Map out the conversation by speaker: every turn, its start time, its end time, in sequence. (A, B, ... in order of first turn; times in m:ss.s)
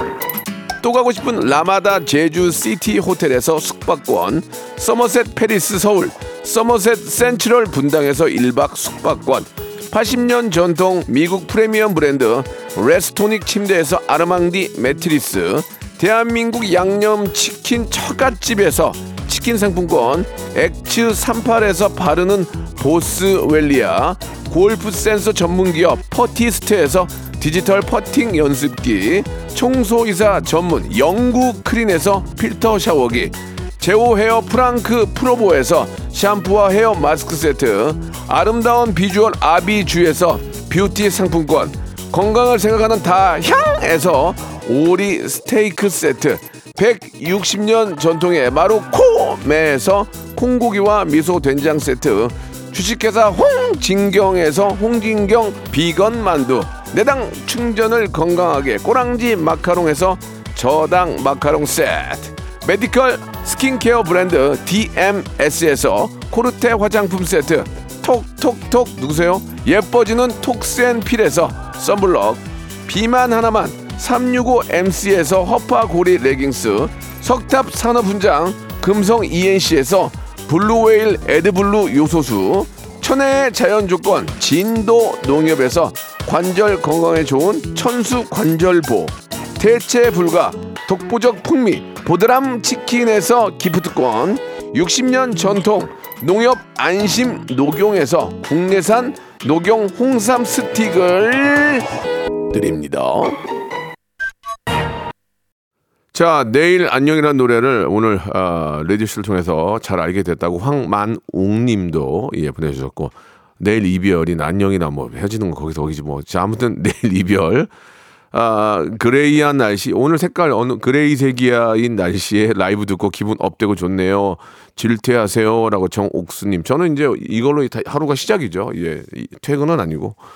0:00.8-1:41.9 A
1:42.5-1:43.4 A
1:46.1-1:57.7 A
1:58.3-2:10.2 A